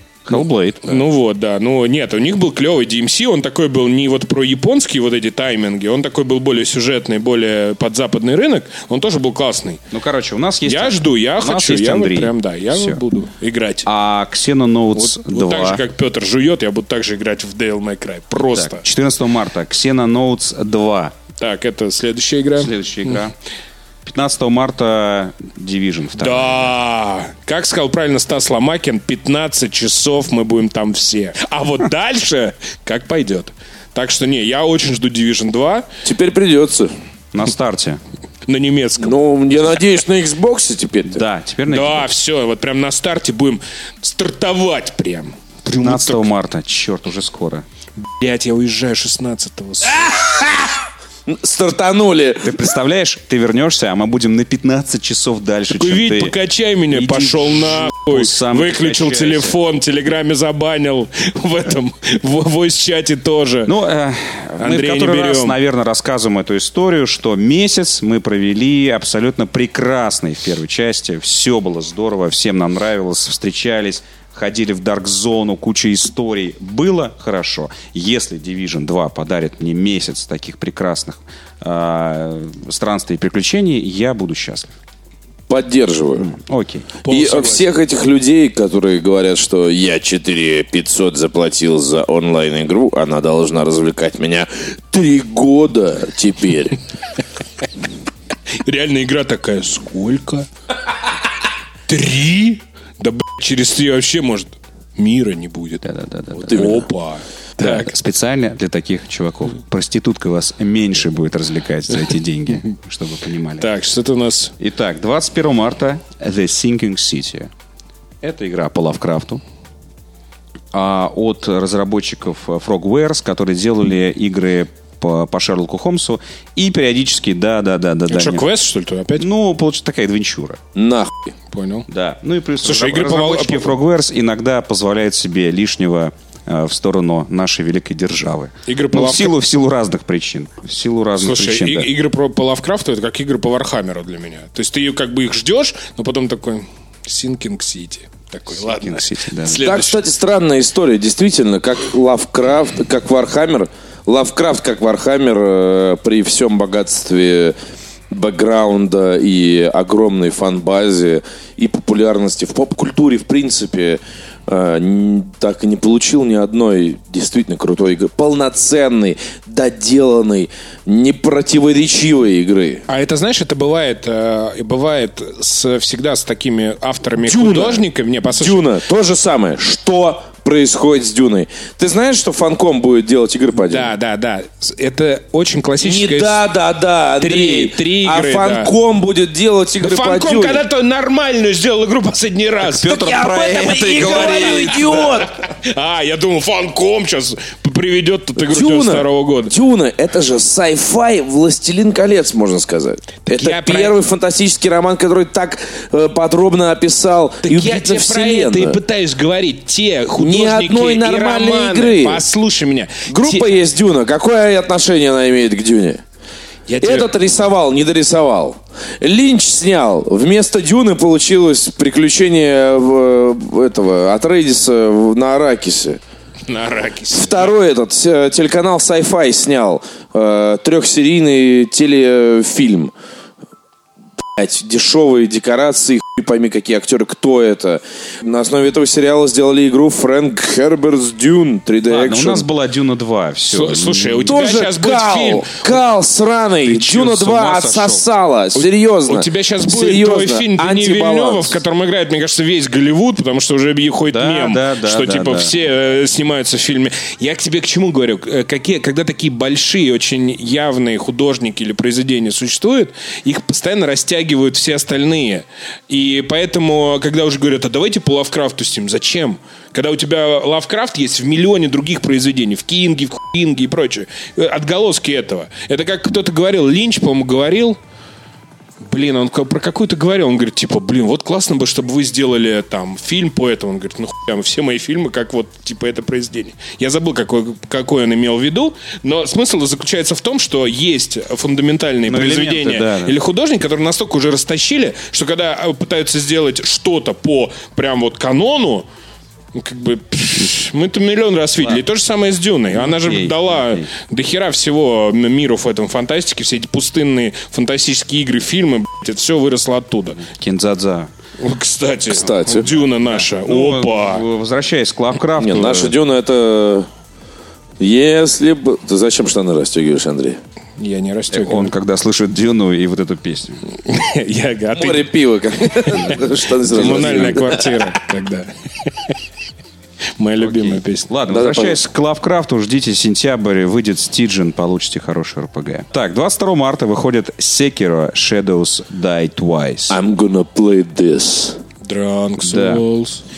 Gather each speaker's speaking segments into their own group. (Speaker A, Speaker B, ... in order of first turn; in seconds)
Speaker A: 0.2-1.1, 9.9-13.0, 13.9-15.8, 18.4-21.1, 22.6-23.3, 24.1-26.8, 37.3-38.0, 41.1-42.1, 45.7-47.6, 52.4-56.4, 56.9-59.6, 63.6-84.7, 86.2-87.0, 105.8-106.8, 107.6-113.7, 114.6-117.5, 118.2-119.4, 120.7-128.4, 129.2-130.6, 131.9-141.9, 148.5-149.9, 192.7-195.2, 241.8-244.4, 246.6-248.0, 254.1-255.5, 292.1-293.2, 302.7-303.9, 310.2-311.1, 312.7-316.0, 321.3-323.6, 330.4-340.0, 342.4-342.8
Speaker B: 0.8-9.8, 10.7-13.9, 15.0-18.8, 21.4-23.2, 26.2-35.9, 38.5-39.2, 41.7-46.3, 48.0-50.3, 55.7-63.7, 64.6-65.6, 87.0-87.7, 98.6-100.5, 101.9-105.8, 106.5-107.9, 113.6-114.5, 128.1-129.3, 131.5-131.9, 132.6-133.8, 138.7-139.3, 141.2-150.0, 172.9-178.7, 183.6-186.5, 187.2-188.7, 189.8-199.5, 203.2-204.0, 207.4-213.5, 216.7-217.1, 226.5-227.6, 243.5-245.7, 248.6-277.8, 278.8-298.9, 299.5-310.2, 311.4-314.3, 320.8-321.7, 323.8-326.2, 326.7-329.1, 330.2-331.1, 341.8-343.2
Speaker C: 36.0-36.9, 39.0-41.2, 50.0-50.7, 51.3-52.5, 85.5-86.3, 87.0-96.8, 106.3-106.9, 130.8-131.3, 149.6-157.6, 158.1-172.8, 177.2-183.9, 185.8-190.6, 192.8-195.4, 198.4-208.8, 210.2-212.2, 213.1-216.0, 216.8-226.0, 227.1-232.9, 234.4-242.5, 244.3-251.6, 312.1-312.7, 315.4-316.9, 317.8-320.4, 324.7-327.9, 331.3-331.8, 339.9-341.6